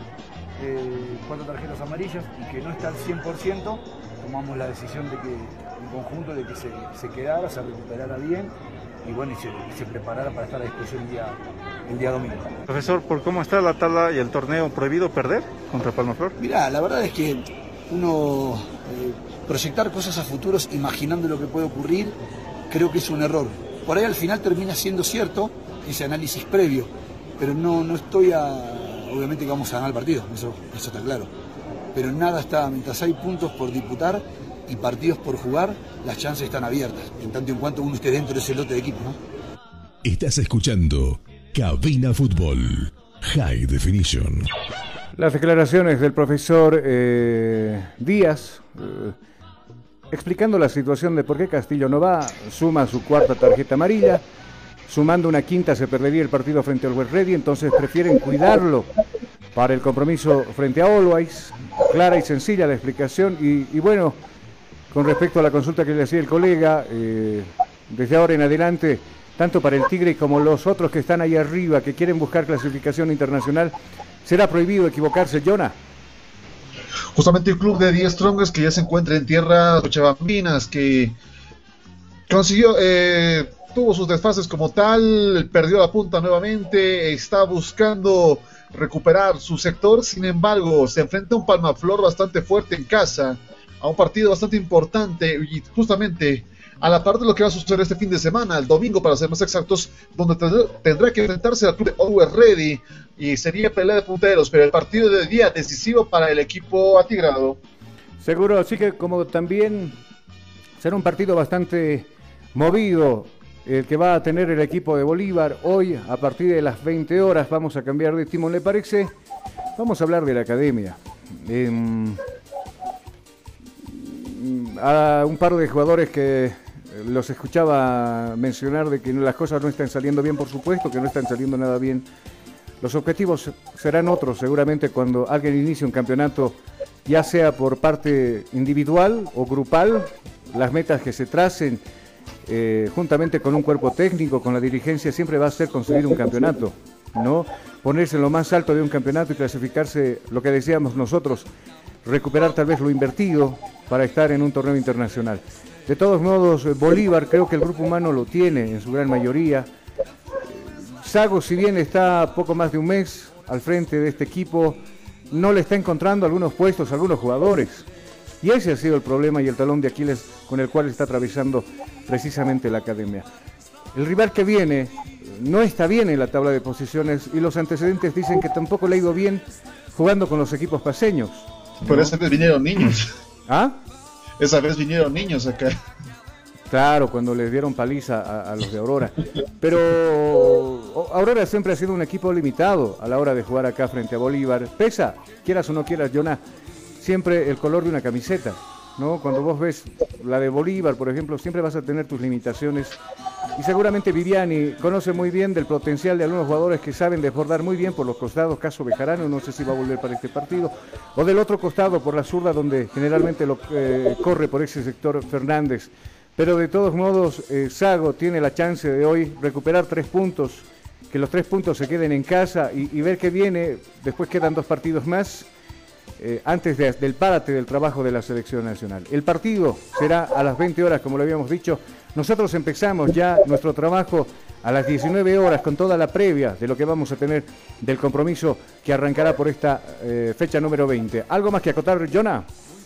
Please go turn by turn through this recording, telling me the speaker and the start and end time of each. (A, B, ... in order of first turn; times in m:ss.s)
0:00.6-0:12.5 A
0:12.7-0:16.4 B
0:16.4-0:22.2 A
0:22.7-0:31.3 A
0:31.9-0:39.2 A
0:40.0-0:44.5 C
0:45.2-0:49.1 D
0:50.1-0:54.2 D
0:54.9-0:58.9 D
0:59.5-1:04.2 D
1:04.9-1:15.8 D
1:17.1-1:21.2 E
1:22.3-1:47.6 E
1:48.2-1:50.0 D
1:50.8-1:59.1 D
1:59.8-2:02.2 D
2:03.9-2:12.0 D
2:12.8-2:21.8 D
2:22.4-2:31.5 D
2:32.0-2:39.7 D
2:40.5-2:44.8 D
2:45.3-2:47.8 D
2:48.4-2:53.2 D
2:53.9-3:02.1 D
3:01.8-3:03.0 E
3:03.5-3:03.8 D
3:04.4-3:05.8 E
3:06.7-3:16.4 D
3:17.0-3:23.0 D
3:23.6-3:45.5 D
3:46.2-4:02.4 D